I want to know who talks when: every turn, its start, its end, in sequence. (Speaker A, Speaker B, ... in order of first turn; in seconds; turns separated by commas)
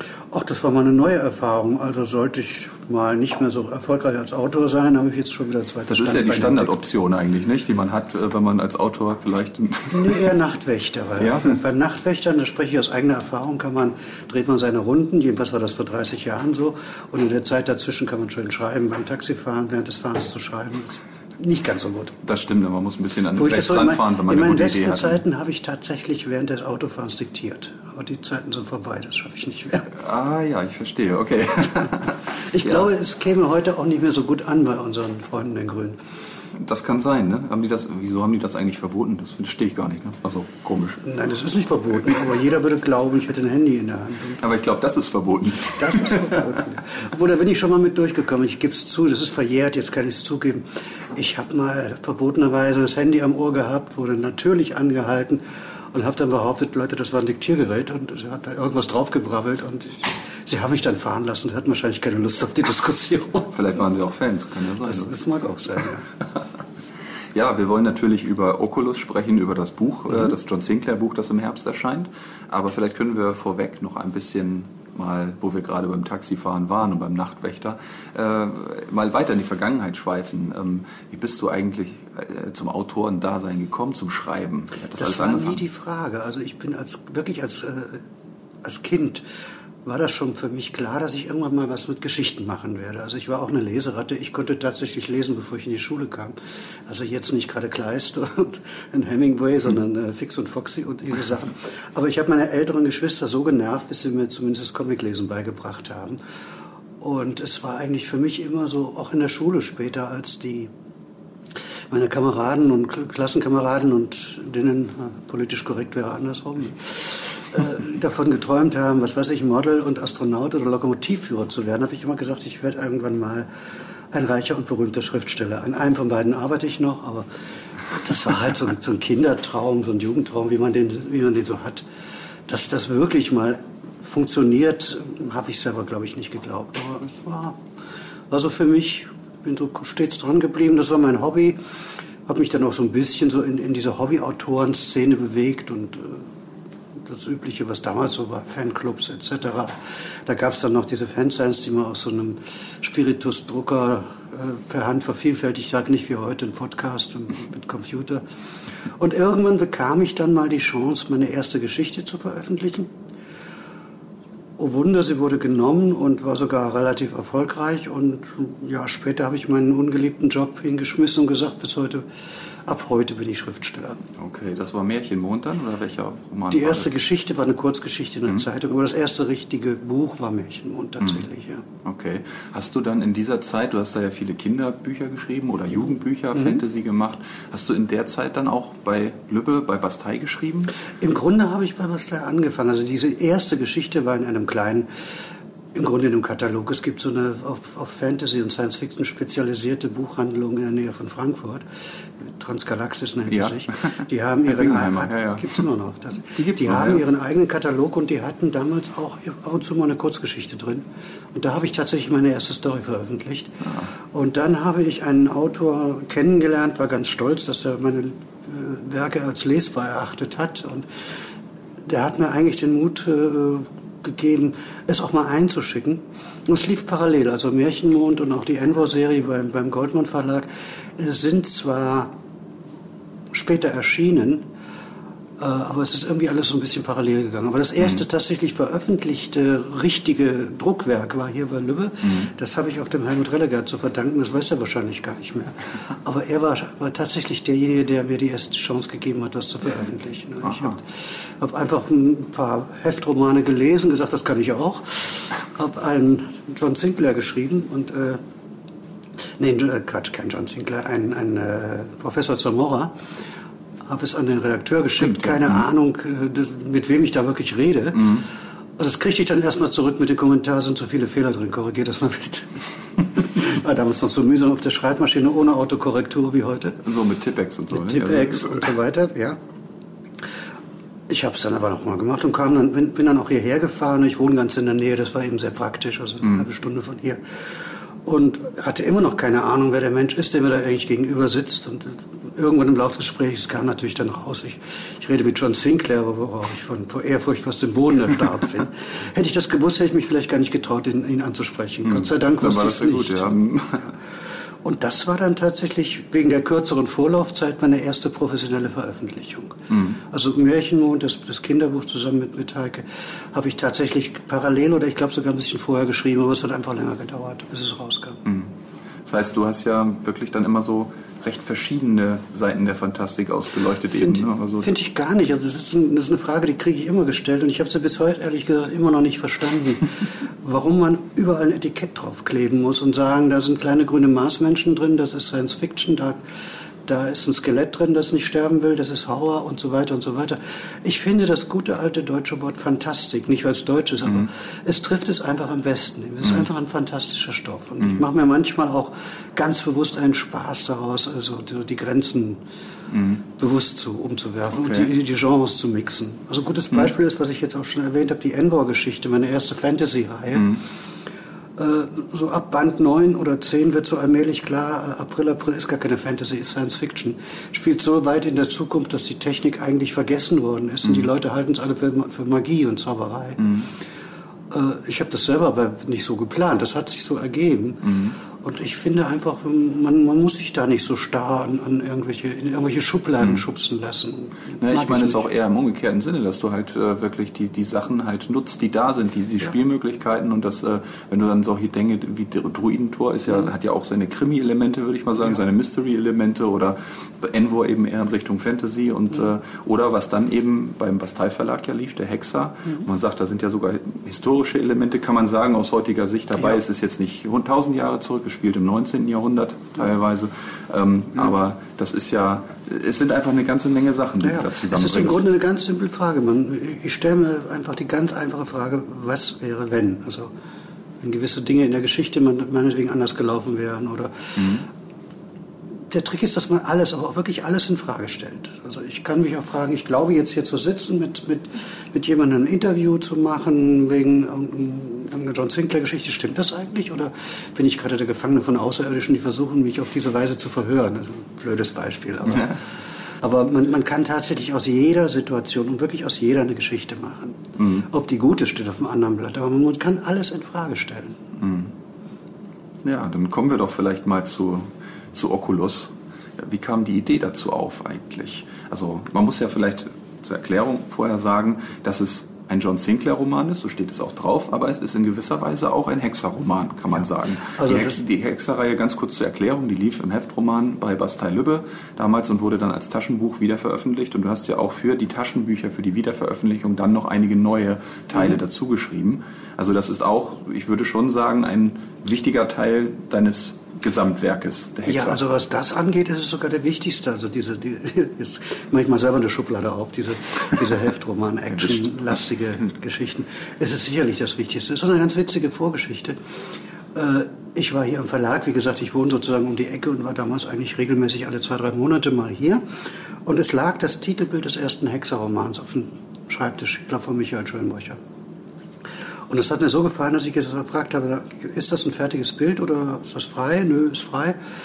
Speaker A: 0.3-6.8, Speaker B: 5.9-10.2, Speaker A: 9.9-22.2, Speaker B: 11.2-11.6, Speaker B: 22.2-25.2, Speaker A: 23.3-29.9, Speaker B: 29.9-32.9, Speaker A: 32.5-36.0, Speaker B: 36.5-41.0, Speaker A: 41.0-44.4, Speaker B: 44.4-46.5, Speaker A: 45.8-63.5, Speaker B: 63.5-65.2, Speaker A: 64.8-66.1, Speaker B: 67.3-85.6, Speaker A: 84.9-88.0, Speaker A: 88.6-89.2, Speaker A: 89.8-96.3, Speaker A: 96.9-106.2, Speaker A: 107.0-110.7, Speaker A: 111.9-123.5, Speaker A: 124.1-127.3, Speaker A: 127.8-131.8, Speaker A: 132.5-137.6, Speaker A: 138.3-141.7, Speaker A: 142.2-146.3, Speaker A: 147.0-158.2, Speaker A: 158.9-162.9, Speaker A: 164.6-172.1, Speaker A: 172.7-174.0, Speaker B: 174.2-176.9, Speaker A: 176.5-181.6, Speaker B: 181.0-181.3, Speaker B: 181.8-190.7, Speaker A: 186.3-186.6, Speaker A: 191.0-194.9, Speaker A: 195.7-201.6, Speaker A: 202.2-220.9, Speaker B: 203.3-205.6, Speaker B: 206.3-207.0, Speaker B: 213.6-213.9, Speaker A: 221.8-232.1, Speaker A: 233.3-234.4, Speaker A: 235.4-258.2, Speaker B: 242.0-242.3, Speaker B: 250.4-250.8, Speaker A: 259.4-263.1, Speaker A: 263.8-268.2, Speaker B: 265.0-265.6, Speaker B: 267.9-268.2, Speaker A: 268.8-276.9, Speaker B: 276.8-278.7, Speaker A: 277.7-279.4, Speaker A: 281.1-303.4, Speaker B: 301.8-303.9, Speaker A: 304.6-318.2, Speaker B: 309.7-310.0, Speaker B: 318.2-318.5, Speaker B: 319.0-324.7, Speaker A: 323.9-336.2, Speaker A: 336.8-352.4, Speaker B: 352.9-353.2, Speaker A: 353.4-360.6, Speaker B: 354.6-354.9, Speaker B: 360.3-360.6, Speaker A: 361.6-373.5, Speaker B: 373.4-373.7, Speaker A: 374.5-385.3, Speaker B: 377.8-378.1, Speaker B: 384.6-415.2, Speaker A: 414.2-420.3, Speaker A: 421.0-424.6, Speaker B: 424.4-424.6, Speaker A: 425.9-442.6, Speaker A: 443.2-451.2, Speaker B: 451.4-451.7, Speaker B: 452.8-485.2, Speaker A: 466.9-468.0, Speaker A: 484.8-496.4, Speaker A: 496.9-508.0, Speaker A: 509.3-514.4